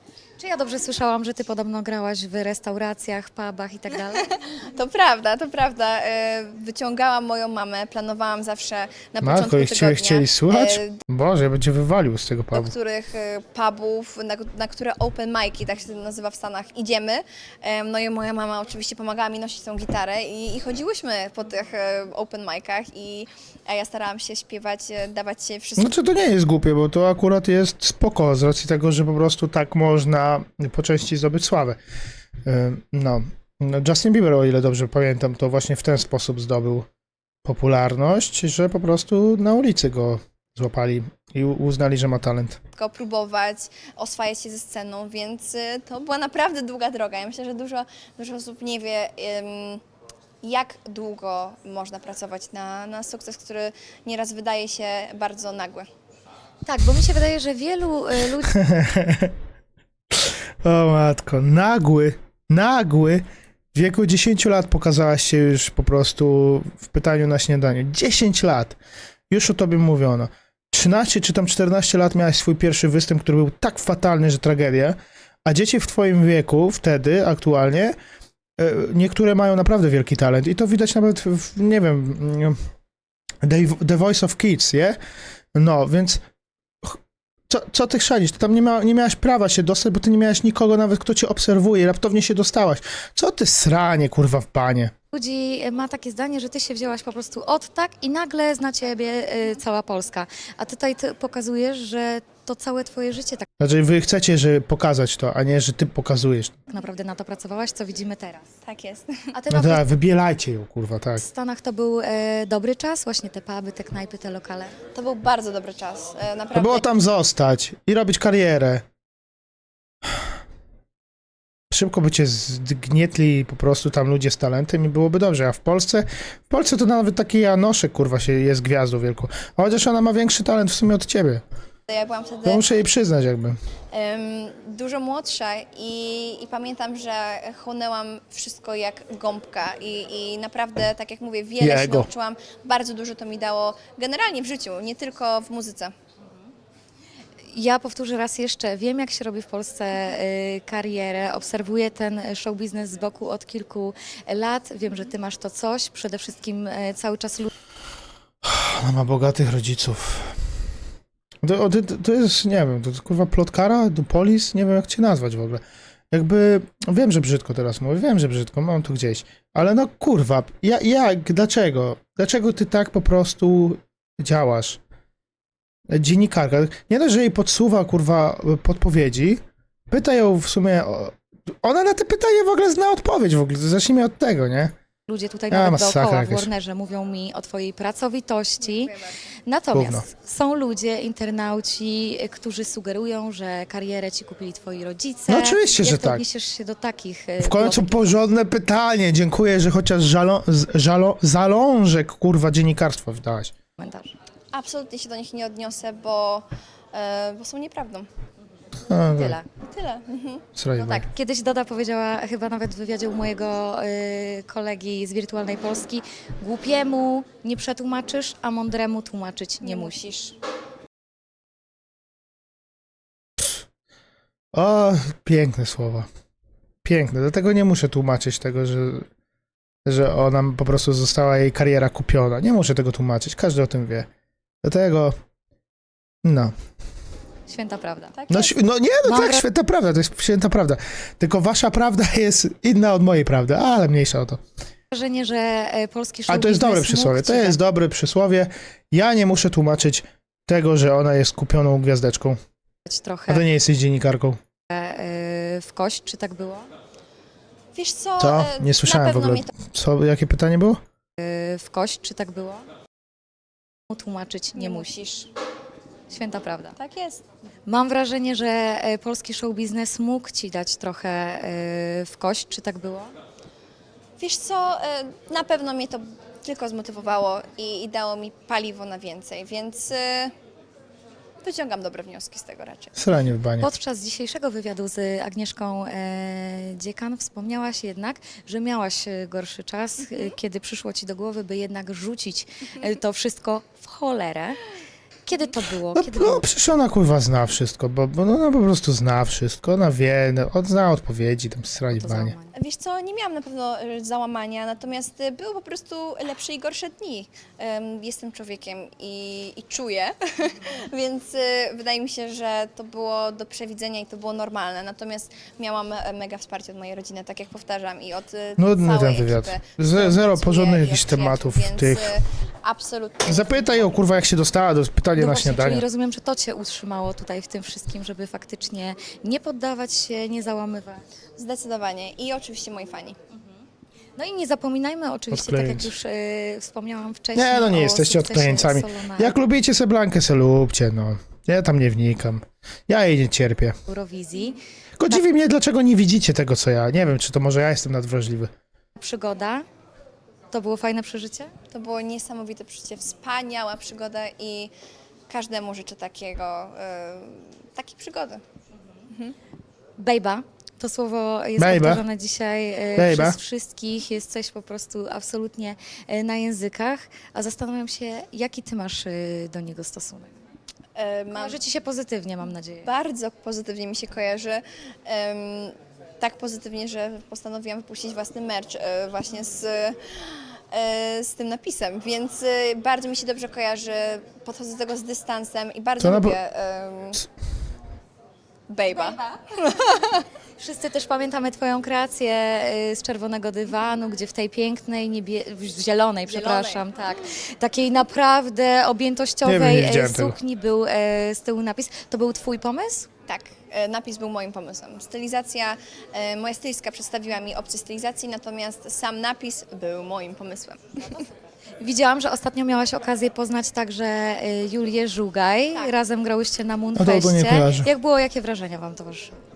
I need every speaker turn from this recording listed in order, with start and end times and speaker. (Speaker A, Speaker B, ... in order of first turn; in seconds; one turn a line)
Speaker A: 0.4-4.4
Speaker B: 4.4-11.0
Speaker C: 9.2-12.7
Speaker B: 12.5-26.0
Speaker C: 25.8-31.8
Speaker C: 32.5-36.9
Speaker C: 37.4-42.6
Speaker B: 42.8-49.8
Speaker B: 50.4-55.9
Speaker A: 56.6-58.6
Speaker C: 58.5-59.4
Speaker C: 60.1-68.8
Speaker C: 69.3-78.0
Speaker C: 78.6-82.6
Speaker C: 83.4-85.0
Speaker C: 85.5-86.2
Speaker C: 86.8-94.9
Speaker A: 95.1-103.5
Speaker C: 103.6-106.6
Speaker A: 106.7-108.5
Speaker B: 108.6-109.3
Speaker A: 109.3-109.8
Speaker C: 109.5-111.2
Speaker A: 111.2-114.8
Speaker B: 114.9-116.9
Speaker C: 116.5-118.8
Speaker C: 121.7-131.4
Speaker B: 131.9-132.7
Speaker C: 132.4-133.6
Speaker B: 133.9-145.9
Speaker C: 141.6-142.1
Speaker A: 147.5-157.5
Speaker C: 158.4-160.3
Speaker C: 161.4-174.8
Speaker C: 175.9-184.8
Speaker A: 185.1-198.2
Speaker C: 185.5-186.5
Speaker B: 188.7-189.1
Speaker C: 189.7-190.0
Speaker C: 195.3-196.2
Speaker C: 197.4-203.5
Speaker A: 203.8-204.2
Speaker B: 204.5-208.1
Speaker C: 208.9-209.4
Speaker A: 209.2-209.4
Speaker B: 209.7-210.9
Speaker C: 210.5-211.1
Speaker A: 210.9-220.0
Speaker B: 219.6-220.3
Speaker C: 224.5-226.1
Speaker C: 226.8-229.1
Speaker C: 229.8-234.1
Speaker C: 234.6-235.2
Speaker C: 236.2-236.5
Speaker A: 237.5-238.2
Speaker B: 238.1-238.6
Speaker C: 238.3-244.4
Speaker A: 239.0-239.4
Speaker A: 244.9-247.6
Speaker C: 246.3-252.4
Speaker A: 252.9-253.4
Speaker C: 253.3-254.4
Speaker A: 254.7-256.7
Speaker B: 257.8-259.5
Speaker C: 258.2-260.8
Speaker A: 261.2-262.7
Speaker A: 263.9-265.0
Speaker B: 264.5-265.3
Speaker A: 266.1-266.8
Speaker B: 266.8-267.2
Speaker A: 267.7-273.1
Speaker B: 274.2-280.3
Speaker B: 281.4-283.0
Speaker C: 283.0-283.7
Speaker A: 283.6-294.6
Speaker A: 295.2-296.5
Speaker C: 295.9-302.3
Speaker A: 301.9-302.5
Speaker B: 302.5-324.0
Speaker C: 318.6-322.1
Speaker C: 323.3-325.8
Speaker A: 325.2-331.0
Speaker B: 331.4-333.2
Speaker A: 334.2-339.4
Speaker C: 335.3-335.9
Speaker C: 337.3-343.8
Speaker A: 343.9-345.2
Speaker C: 345.0-348.5
Speaker A: 349.0-349.6
Speaker A: 350.5-351.5
Speaker B: 351.7-354.7
Speaker B: 355.3-358.4
Speaker B: 359.1-359.3
Speaker A: 360.0-370.3
Speaker C: 361.6-362.0
Speaker C: 363.0-363.4
Speaker B: 370.9-371.6
Speaker A: 371.3-372.9
Speaker B: 372.8-387.2
Speaker C: 386.0-386.4
Speaker B: 388.7-390.2
Speaker A: 388.9-389.4
Speaker A: 390.6-403.1
Speaker B: 396.3-396.9
Speaker C: 399.4-400.4
Speaker B: 403.3-411.2
Speaker A: 411.8-419.3
Speaker C: 417.0-417.9